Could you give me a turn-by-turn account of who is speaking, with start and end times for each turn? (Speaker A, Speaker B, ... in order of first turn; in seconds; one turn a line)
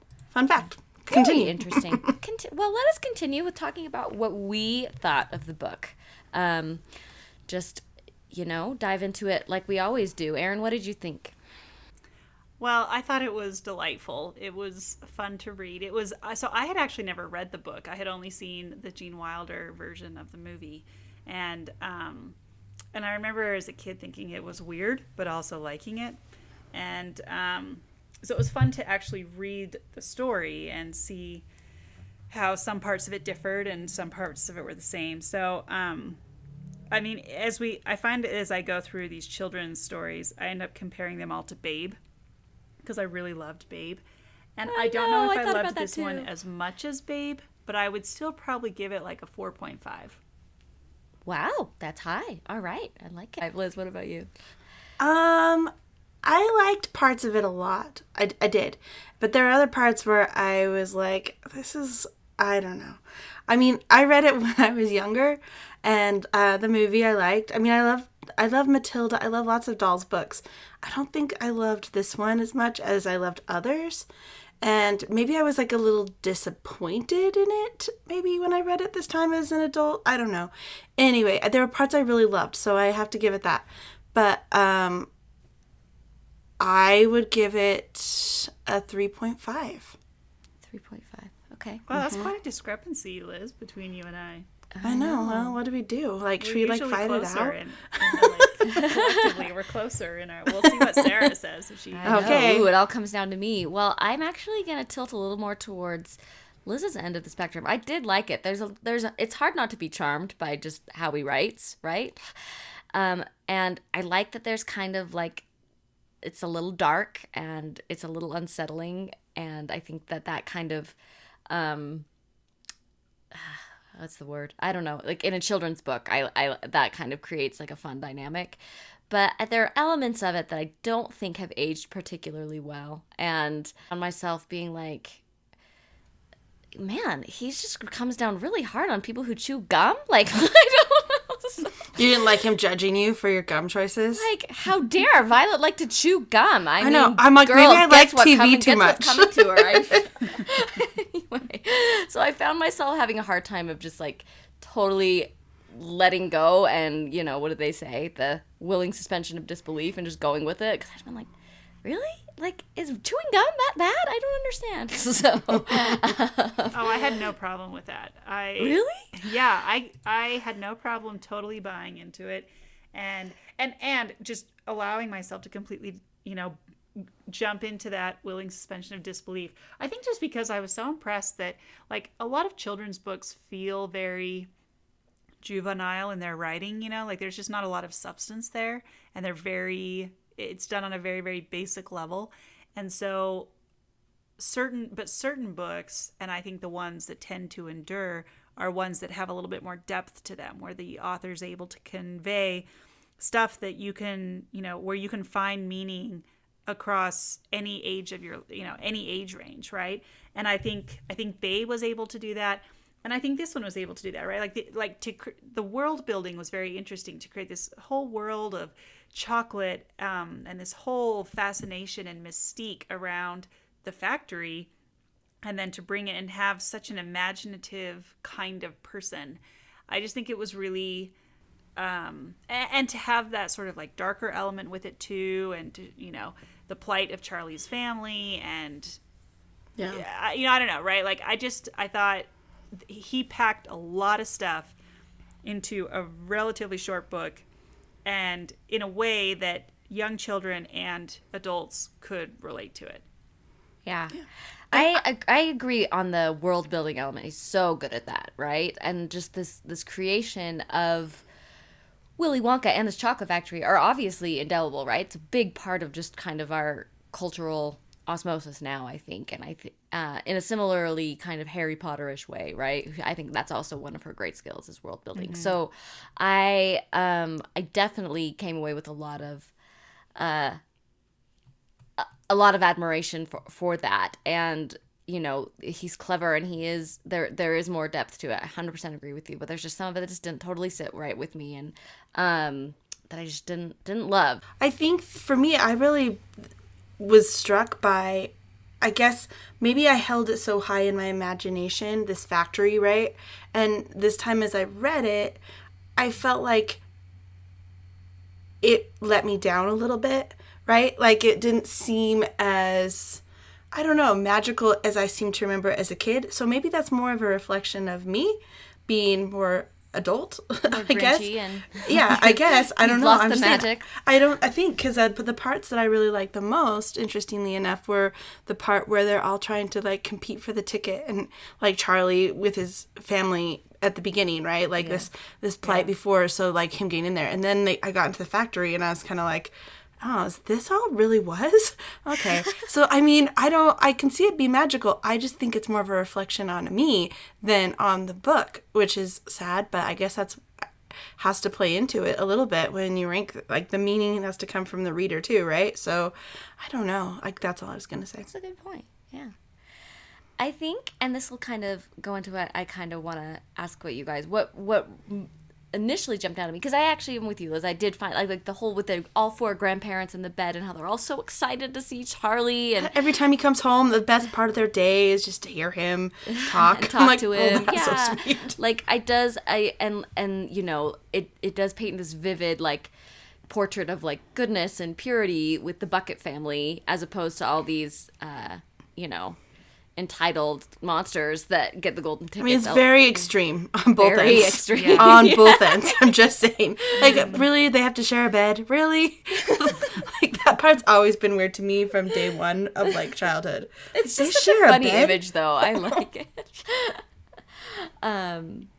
Speaker A: 0.3-2.1
Speaker B: 1.1-6.8
Speaker B: 7.5-11.3
Speaker C: 12.6-22.4
Speaker C: 22.9-26.2
Speaker C: 26.7-31.5
Speaker C: 32.3-36.2
Speaker C: 36.9-42.0
Speaker C: 42.8-44.0
Speaker C: 44.6-50.2
Speaker B: 44.7-46.3
Speaker B: 51.3-54.3
Speaker A: 55.0-55.7
Speaker A: 56.2-74.1
Speaker A: 74.6-85.1
Speaker A: 86.6-90.0
Speaker B: 90.7-91.8
Speaker C: 91.9-94.5
Speaker A: 91.9-92.3
Speaker B: 94.8-95.5
Speaker A: 94.8-98.3
Speaker C: 96.4-102.5
Speaker B: 98.7-99.3
Speaker B: 102.0-112.2
Speaker A: 102.0-102.7
Speaker B: 112.9-115.5
Speaker B: 116.2-121.0
Speaker B: 121.5-122.1
Speaker B: 123.3-128.6
Speaker B: 129.1-135.2
Speaker B: 136.8-141.9
Speaker A: 141.9-144.3
Speaker B: 144.1-161.3
Speaker A: 146.8-150.0
Speaker B: 161.8-166.8
Speaker A: 165.7-165.9
Speaker C: 166.7-184.5
Speaker B: 168.6-169.2
Speaker C: 185.4-193.5
Speaker C: 194.4-202.7
Speaker C: 203.2-224.7
Speaker C: 225.4-231.1
Speaker C: 231.8-239.0
Speaker A: 239.8-240.0
Speaker C: 239.9-244.8
Speaker C: 245.4-247.4
Speaker C: 248.1-253.0
Speaker B: 253.8-254.2
Speaker B: 254.7-261.2
Speaker B: 262.2-279.5
Speaker A: 275.2-275.6
Speaker B: 280.2-280.6
Speaker B: 282.0-294.4
Speaker A: 294.6-296.3
Speaker A: 297.0-305.4
Speaker A: 306.0-306.8
Speaker A: 308.6-350.4
Speaker B: 320.6-323.9
Speaker B: 334.8-335.1
Speaker A: 351.2-358.3
Speaker B: 358.2-359.3
Speaker B: 360.4-372.9
Speaker A: 372.8-378.6
Speaker B: 376.3-382.9
Speaker B: 383.5-389.4
Speaker B: 390.0-393.2
Speaker A: 392.4-406.0
Speaker B: 394.0-396.1
Speaker C: 394.7-395.1
Speaker C: 397.0-397.4
Speaker B: 403.9-407.0
Speaker B: 407.6-408.7